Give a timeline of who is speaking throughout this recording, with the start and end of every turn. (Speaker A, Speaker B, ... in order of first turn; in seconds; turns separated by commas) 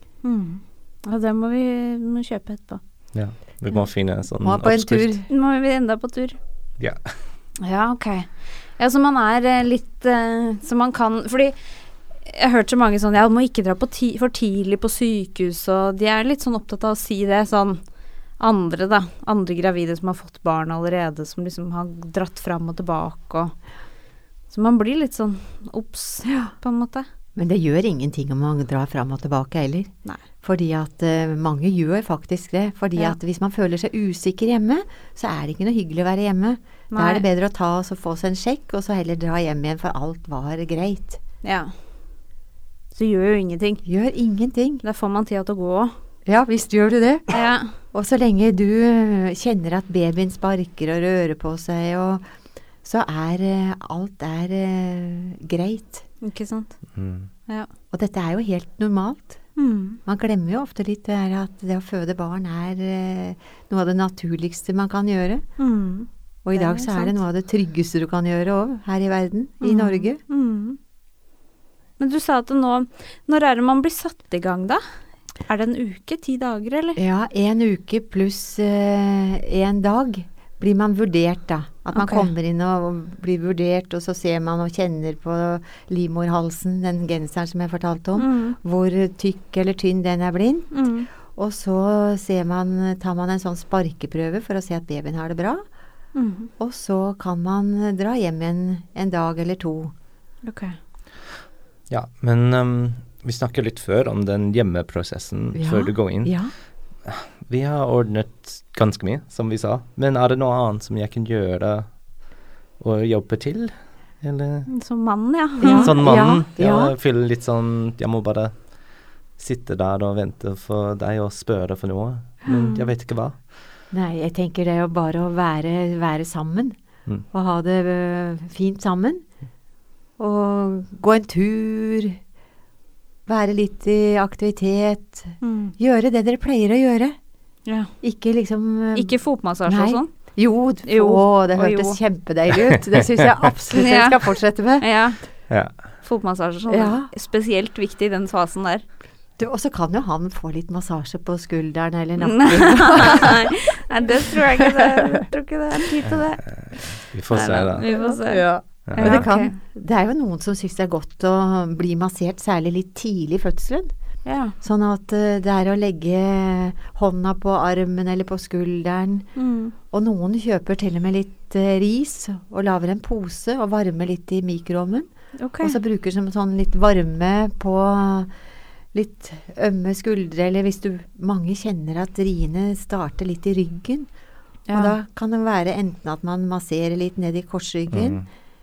Speaker A: 0.2-2.8, Speaker B: 3.1-5.1, Speaker C: 4.4-5.3, Speaker A: 5.3-6.4, Speaker B: 6.8-7.2, Speaker A: 7.6-11.6, Speaker A: 12.2-17.9, Speaker A: 18.4-23.7, Speaker A: 24.5-27.1, Speaker C: 26.3-26.5, Speaker C: 27.4-41.2, Speaker A: 36.9-37.2, Speaker A: 41.4-41.7, Speaker A: 42.9-43.8, Speaker C: 43.9-44.8, Speaker A: 44.8-45.9, Speaker C: 46.3-52.2, Speaker A: 47.3-47.8, Speaker C: 52.8-56.0, Speaker A: 56.2-57.7, Speaker B: 56.9-57.3, Speaker C: 57.9-65.5, Speaker A: 59.6-60.0, Speaker A: 65.6-67.2, Speaker C: 66.4-70.2, Speaker A: 69.6-70.8, Speaker A: 72.0-74.8, Speaker A: 75.4-77.0, Speaker C: 77.0-95.7, Speaker A: 81.9-82.3, Speaker A: 88.2-88.6, Speaker A: 90.7-91.1, Speaker A: 96.2-96.5, Speaker C: 96.6-99.9, Speaker A: 100.4-100.8, Speaker B: 101.9-112.3, Speaker C: 105.5-106.5, Speaker B: 112.8-114.8, Speaker A: 114.7-115.9, Speaker B: 115.6-123.4, Speaker C: 115.6-116.9, Speaker A: 122.5-122.9, Speaker C: 123.9-129.3, Speaker C: 130.2-132.2, Speaker C: 133.3-137.2, Speaker A: 135.4-135.8, Speaker A: 137.7-137.9, Speaker C: 138.0-144.9, Speaker A: 138.9-140.3, Speaker A: 140.8-142.0, Speaker A: 143.7-148.9, Speaker B: 145.5-146.0, Speaker C: 146.7-147.1, Speaker C: 149.4-154.6, Speaker A: 152.2-159.6, Speaker B: 156.1-157.9, Speaker C: 157.8-163.9, Speaker B: 158.9-159.3, Speaker A: 164.2-164.6, Speaker C: 164.6-169.3, Speaker A: 169.3-169.7, Speaker C: 169.9-178.3, Speaker A: 175.4-175.8, Speaker C: 178.9-184.1, Speaker A: 184.7-185.0, Speaker C: 184.7-188.2, Speaker B: 187.9-188.3